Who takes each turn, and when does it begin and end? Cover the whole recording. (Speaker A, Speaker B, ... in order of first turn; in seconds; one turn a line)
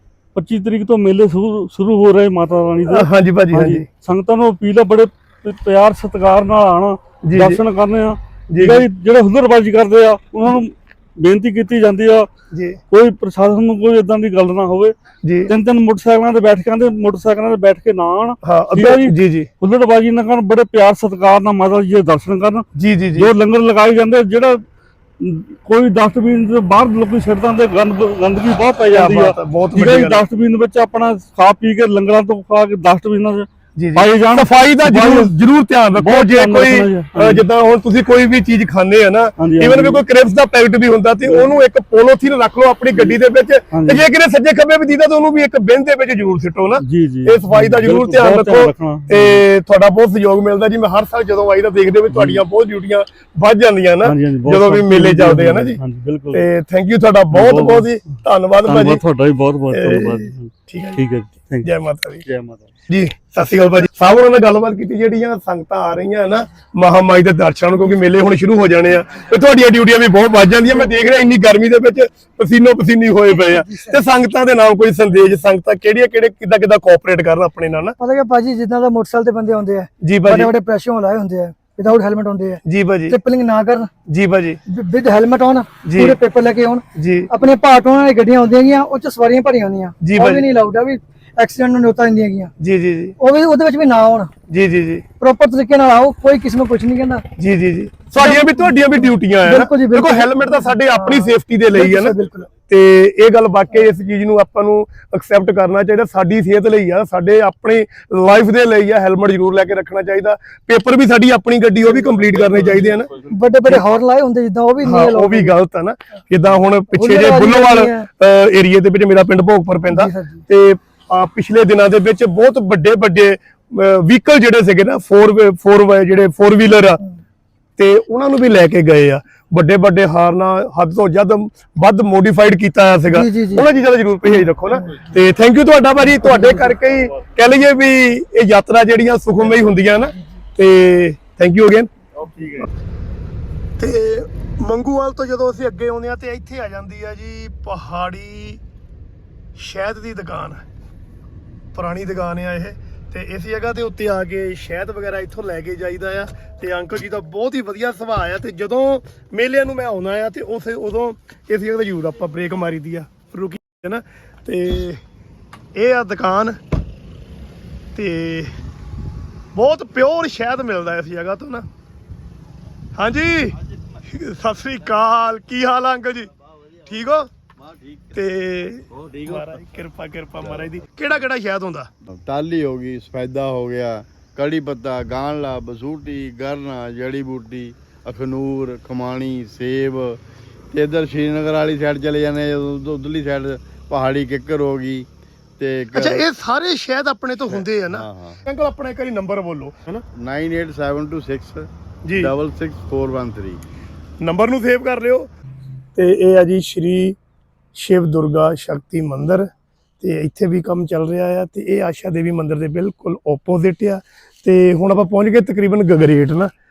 Speaker A: 0.3-12.3
Speaker B: 2.9-3.9
Speaker B: 7.2-7.6
Speaker B: 8.5-8.9
Speaker B: 12.5-12.8
Speaker A: 12.9-14.9
Speaker B: 15.2-15.5
Speaker A: 15.5-22.6
Speaker B: 18.4-19.5
Speaker B: 22.8-23.3
Speaker A: 23.2-24.6
Speaker A: 25.2-35.3
Speaker B: 28.9-30.2
Speaker B: 33.8-55.8
Speaker A: 35.9-37.4
Speaker A: 39.4-40.0
Speaker A: 41.2-41.5
Speaker A: 43.7-44.0
Speaker A: 46.8-49.4
Speaker A: 52.1-52.4
Speaker A: 54.0-56.4
Speaker B: 56.3-59.0
Speaker A: 57.3-57.9
Speaker A: 58.7-61.7
Speaker B: 59.7-61.0
Speaker B: 61.6-62.3
Speaker A: 62.3-62.7
Speaker B: 62.9-78.0
Speaker C: 73.3-74.0
Speaker C: 78.0-83.9
Speaker B: 80.0-80.5
Speaker B: 82.7-83.2
Speaker B: 84.1-84.6
Speaker C: 84.7-92.5
Speaker B: 85.8-86.2
Speaker B: 87.0-87.3
Speaker B: 90.0-90.5
Speaker B: 92.6-93.2
Speaker C: 93.2-94.3
Speaker B: 94.5-95.0
Speaker C: 95.2-97.2
Speaker B: 97.4-102.2
Speaker C: 98.1-102.5
Speaker B: 102.7-113.1
Speaker C: 112.3-115.5
Speaker B: 114.8-127.0
Speaker C: 116.9-118.1
Speaker C: 119.9-120.4
Speaker B: 127.8-141.9
Speaker C: 133.1-133.7
Speaker C: 136.3-136.7
Speaker B: 143.8-148.6
Speaker B: 149.6-150.6
Speaker B: 151.7-165.0
Speaker B: 165.8-166.6
Speaker B: 168.0-168.5
Speaker B: 169.5-171.7
Speaker B: 173.0-176.3
Speaker B: 176.8-177.3
Speaker D: 177.6-178.0
Speaker B: 178.1-181.9
Speaker D: 179.0-179.5
Speaker D: 182.2-190.2
Speaker D: 190.7-195.1
Speaker D: 195.6-196.2
Speaker B: 195.9-200.0
Speaker D: 197.5-198.4
Speaker D: 200.2-203.6
Speaker B: 202.1-202.3
Speaker B: 204.2-205.3
Speaker B: 206.0-207.2
Speaker B: 207.8-209.5
Speaker B: 210.0-216.5